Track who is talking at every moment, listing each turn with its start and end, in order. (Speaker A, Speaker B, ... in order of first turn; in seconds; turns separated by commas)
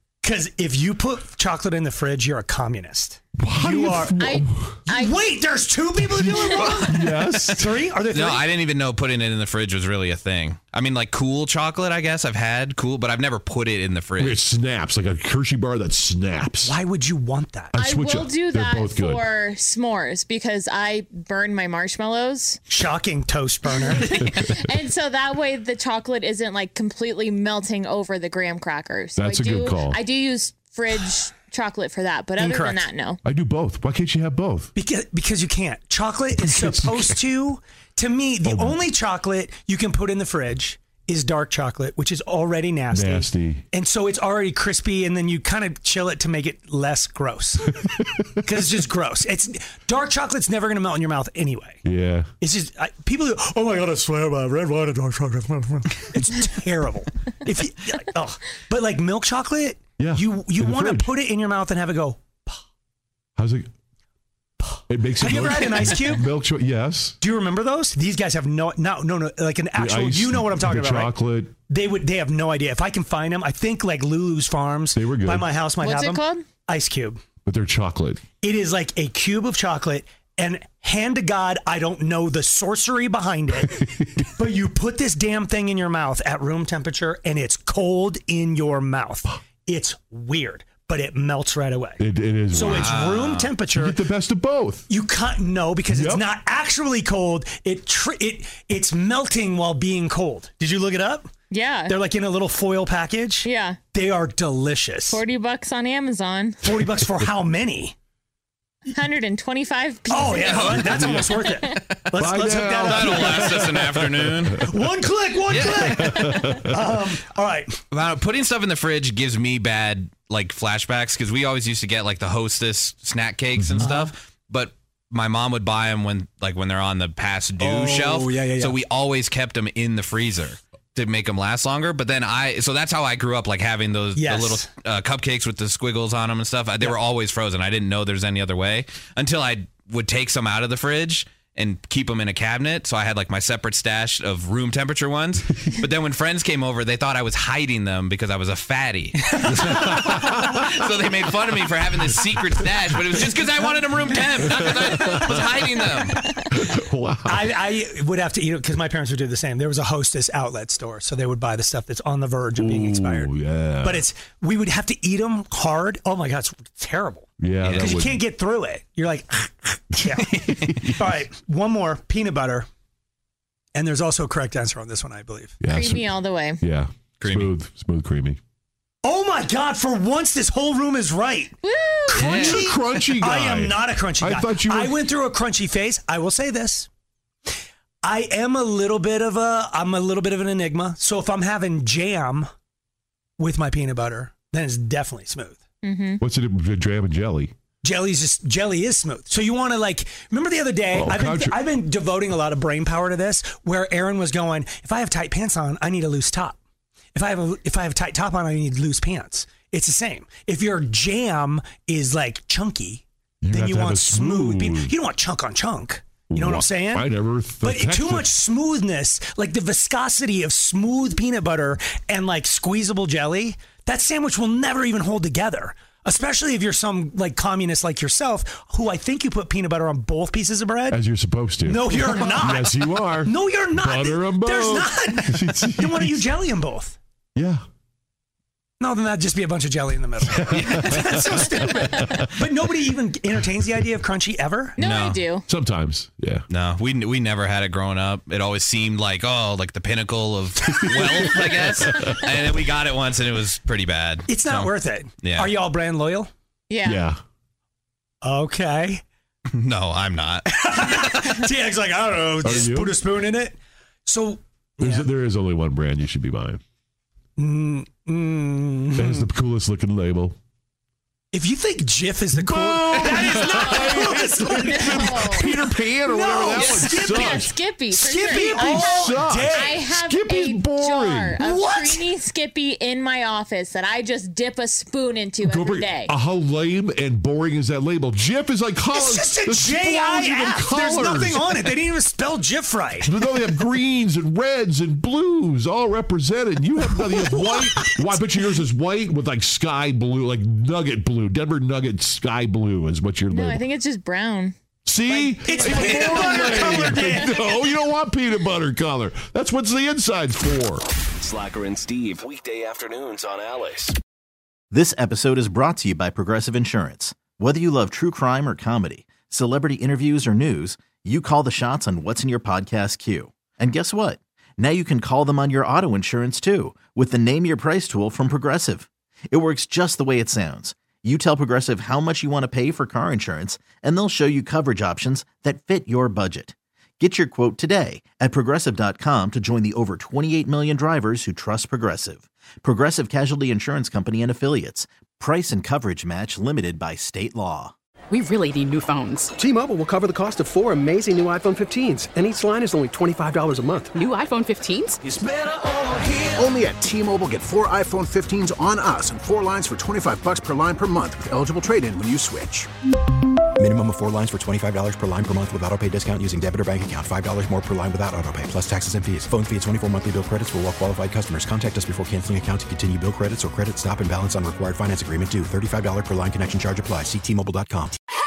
Speaker A: 0.2-4.1, Speaker B: 3.4-4.8, Speaker C: 4.1-5.3, Speaker A: 4.9-8.4, Speaker B: 6.2-7.7, Speaker C: 6.2-6.8, Speaker D: 7.5-14.4, Speaker B: 14.2-16.7, Speaker A: 16.6-17.7, Speaker B: 17.7-19.3, Speaker C: 17.8-22.6, Speaker A: 22.7-24.1, Speaker C: 23.9-33.2, Speaker B: 24.2-24.6, Speaker B: 29.1-30.0, Speaker A: 32.4-32.9, Speaker B: 33.2-34.7, Speaker A: 34.8-47.8, Speaker B: 36.5-37.1, Speaker B: 38.4-38.8, Speaker B: 42.9-43.6, Speaker B: 47.8-48.2, Speaker A: 48.4-51.8, Speaker B: 51.8-52.3, Speaker A: 52.4-62.6, Speaker B: 60.0-61.1, Speaker B: 63.4-63.7, Speaker B: 64.9-67.2, Speaker A: 65.2-66.3, Speaker A: 67.2-71.1, Speaker B: 69.7-71.5, Speaker A: 71.7-77.2, Speaker B: 74.9-75.5, Speaker C: 75.8-76.5, Speaker B: 77.5-78.2, Speaker A: 78.4-83.8, Speaker B: 83.7-84.3, Speaker A: 84.3-92.0, Speaker B: 92.0-93.1, Speaker A: 92.5-94.0, Speaker D: 92.6-93.5, Speaker B: 93.6-94.8, Speaker A: 94.9-101.3, Speaker B: 95.9-96.2, Speaker C: 101.5-101.9, Speaker A: 101.9-105.2, Speaker C: 103.4-103.8, Speaker C: 105.1-106.8, Speaker A: 106.6-107.9, Speaker C: 108.8-112.0, Speaker A: 110.1-113.9, Speaker D: 110.3-112.2, Speaker B: 110.9-111.5, Speaker B: 112.2-114.9, Speaker D: 112.8-114.6, Speaker A: 114.6-117.8, Speaker D: 115.5-116.4, Speaker B: 115.5-116.9, Speaker D: 117.9-156.2, Speaker B: 123.5-123.9, Speaker A: 123.8-124.1, Speaker A: 127.6-128.7, Speaker A: 134.1-134.7, Speaker A: 149.2-149.9, Speaker B: 149.7-150.6, Speaker A: 153.6-156.3, Speaker B: 154.5-155.4, Speaker B: 156.5-157.5, Speaker A: 157.2-163.3, Speaker B: 162.6-164.1, Speaker A: 163.8-167.2, Speaker B: 167.4-168.2, Speaker D: 167.6-168.0, Speaker A: 167.8-170.4, Speaker D: 170.2-170.9, Speaker B: 170.6-171.0, Speaker A: 171.0-172.7, Speaker A: 173.7-175.6, Speaker B: 175.6-178.4, Speaker C: 175.7-176.6, Speaker D: 177.2-177.5, Speaker A: 179.0-186.9, Speaker C: 181.6-182.5, Speaker D: 182.2-182.6, Speaker B: 182.2-185.0, Speaker A: 188.0-192.5, Speaker A: 193.4-195.6, Speaker C: 195.8-196.2, Speaker B: 196.2-197.5, Speaker A: 197.8-206.6, Speaker B: 200.9-201.6, Speaker A: 207.1-217.1, Speaker B: 213.4-214.9, Speaker B: 216.3-218.3, Speaker A: 217.6-231.0, Speaker B: 230.9-236.3, Speaker A: 231.6-237.0, Speaker B: 237.3-237.6, Speaker A: 238.8-244.8, Speaker B: 240.2-242.3, Speaker D: 240.5-241.0, Speaker C: 244.8-245.4, Speaker D: 244.8-245.2, Speaker B: 245.5-246.4, Speaker D: 246.5-254.7, Speaker B: 250.8-252.4, Speaker A: 251.0-251.3, Speaker A: 254.3-256.3, Speaker D: 255.2-255.5, Speaker C: 256.7-257.1, Speaker B: 256.8-257.2, Speaker A: 258.2-259.0, Speaker D: 259.5-261.2, Speaker A: 260.5-265.1, Speaker B: 262.4-263.0, Speaker B: 264.8-266.6, Speaker A: 267.4-269.3, Speaker B: 268.9-270.4, Speaker A: 271.3-277.3, Speaker B: 272.3-277.6, Speaker C: 273.5-275.6, Speaker D: 276.5-276.9, Speaker C: 276.9-286.1, Speaker A: 277.9-279.8, Speaker B: 278.4-281.5, Speaker A: 281.4-282.1, Speaker B: 285.4-291.8, Speaker A: 288.9-293.2, Speaker B: 293.0-303.6, Speaker A: 297.2-298.2, Speaker C: 303.3-304.6, Speaker B: 304.8-310.8, Speaker C: 305.1-307.3, Speaker A: 305.4-307.2, Speaker D: 305.8-306.5, Speaker E: 311.1-313.9, Speaker F: 314.7-347.7, Speaker G: 348.1-349.3, Speaker H: 349.4-354.0, Speaker G: 354.0-355.0, Speaker I: 356.0-362.7, Speaker J: 363.6-377.9